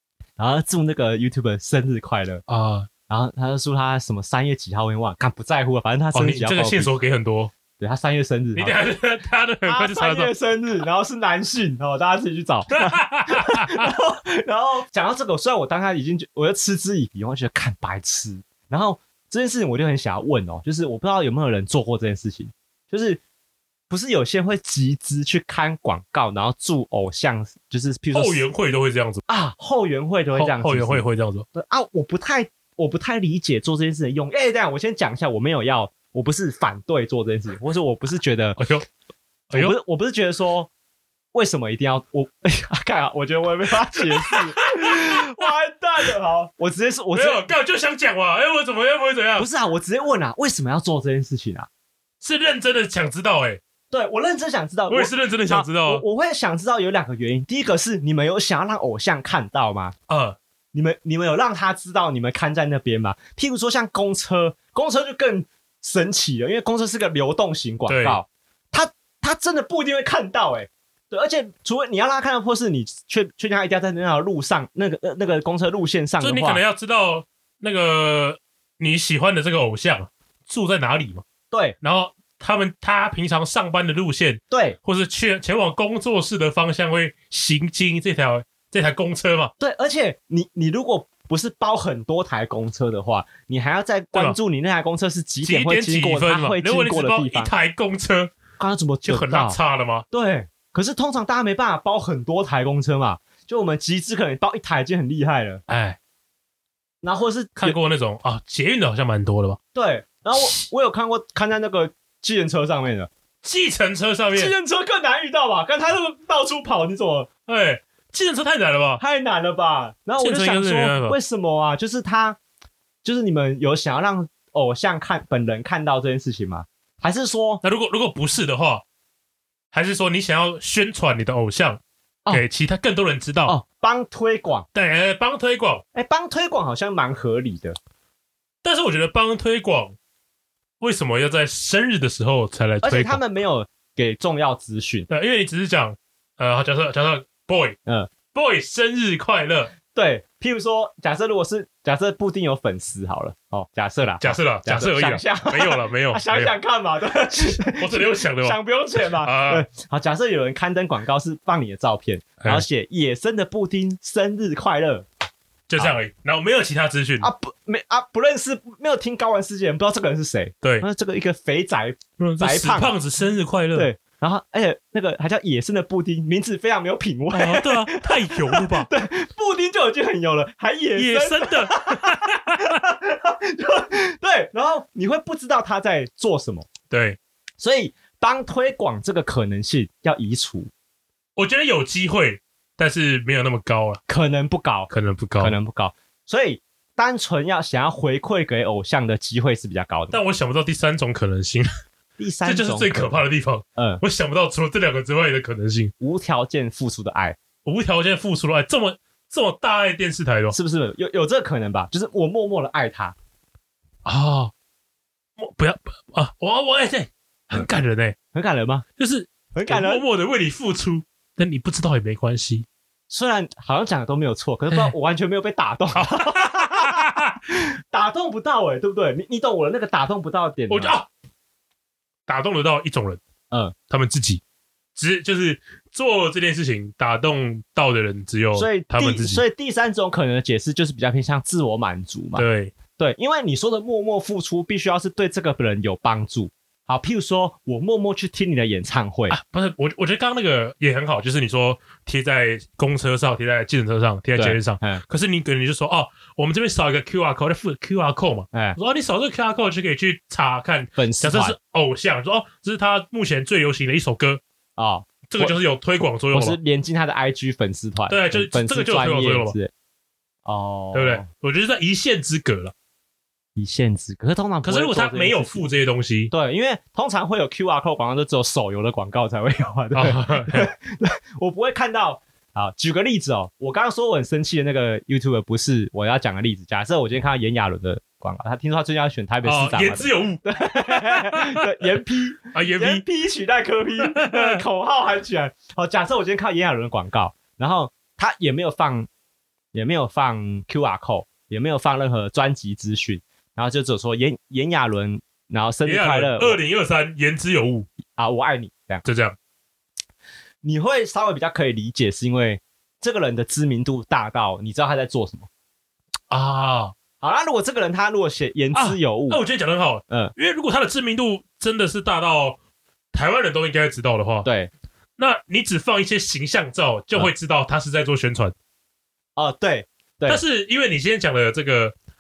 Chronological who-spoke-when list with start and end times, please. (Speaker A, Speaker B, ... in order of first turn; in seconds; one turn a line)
Speaker A: 0.4-2.4
Speaker B: 2.5-2.9
Speaker A: 3.1-6.9
Speaker B: 6.1-7.5
Speaker A: 7.8-8.8
Speaker B: 8.6-10.3
Speaker A: 9.7-23.2
Speaker B: 12.7-13.9
Speaker A: 23.9-28.4
Speaker B: 28.1-29.2
Speaker A: 29.3-38.6
Speaker B: 30.4-31.4
Speaker B: 38.6-38.8
Speaker A: 39.5-40.7
Speaker A: 41.3-47.5
Speaker B: 44.1-45.2
Speaker B: 47.1-49.5
Speaker A: 49.4-51.7
Speaker B: 52.2-53.6
Speaker A: 53.9-60.0
Speaker B: 54.9-56.0
Speaker B: 60.1-60.4
Speaker A: 60.7-76.6
Speaker B: 67.9-68.2
Speaker B: 76.2-81.2
Speaker A: 81.5-81.8
Speaker B: 81.8-89.5
Speaker A: 84.5-84.8
Speaker A: 89.6-97.5
Speaker B: 95.4-98.3
Speaker A: 98.6-99.6
Speaker B: 99.1-100.0
Speaker A: 100.1-105.6
Speaker B: 105.7-106.0
Speaker A: 107.0-107.8
Speaker B: 107.6-109.6
Speaker A: 109.8-113.1
Speaker B: 113.4-114.5
Speaker A: 114.3-117.3
Speaker B: 117.5-119.0
Speaker A: 119.0-122.4
Speaker B: 120.2-121.2
Speaker A: 123.0-127.6
Speaker B: 127.6-128.8
Speaker B: 129.7-133.5
Speaker A: 133.4-134.7
Speaker B: 134.7-135.8
Speaker A: 135.9-137.8
Speaker B: 138.6-139.9
Speaker B: 140.8-143.2
Speaker A: 142.8-145.1
Speaker B: 145.1-147.8
Speaker B: 148.3-149.7
Speaker A: 149.9-165.1
Speaker B: 154.2-156.5
Speaker B: 157.5-158.6
Speaker B: 159.2-159.7
Speaker B: 165.7-167.3
Speaker A: 167.2-172.9
Speaker B: 172.2-173.9
Speaker A: 173.8-186.7
Speaker B: 177.3-178.9
Speaker B: 180.9-182.6
Speaker B: 186.9-187.2
Speaker A: 187.6-190.7
Speaker B: 191.3-194.0
Speaker A: 194.1-200.2
Speaker B: 194.9-195.6
Speaker B: 200.1-201.7
Speaker A: 202.2-203.2
Speaker B: 202.4-205.9
Speaker A: 203.8-204.0
Speaker A: 206.0-207.4
Speaker B: 207.7-210.6
Speaker A: 210.5-213.2
Speaker B: 214.1-214.5
Speaker B: 215.4-218.2
Speaker A: 218.3-218.8
Speaker B: 219.0-222.7
Speaker A: 219.5-220.0
Speaker A: 223.1-230.9
Speaker B: 225.9-227.3
Speaker B: 230.7-231.1
Speaker B: 232.3-233.2
Speaker B: 233.9-234.4
Speaker B: 234.9-239.4
Speaker A: 238.6-242.4
Speaker B: 242.3-242.7
Speaker A: 243.0-249.3
Speaker B: 249.3-264.4
Speaker A: 254.3-255.0
Speaker A: 258.5-258.8
Speaker A: 260.9-261.6
Speaker A: 264.8-265.6
Speaker B: 265.3-266.6
Speaker A: 266.3-269.7
Speaker B: 268.1-269.6
Speaker A: 270.4-271.3
Speaker B: 270.9-272.7
Speaker A: 273.6-275.6
Speaker B: 274.6-276.3
Speaker A: 276.3-299.1
Speaker B: 279.9-280.7
Speaker B: 289.4-291.6
Speaker B: 292.5-293.0
Speaker B: 294.1-294.6
Speaker A: 299.7-306.6
Speaker B: 305.8-307.9
Speaker A: 308.2-309.1
Speaker B: 309.1-309.4
Speaker A: 310.6-315.5
Speaker B: 316.3-316.9
Speaker A: 317.2-319.4
Speaker B: 318.8-322.6
Speaker B: 323.1-324.5
Speaker A: 324.4-324.7
Speaker B: 325.2-328.5
Speaker A: 329.4-330.4
Speaker B: 330.3-331.9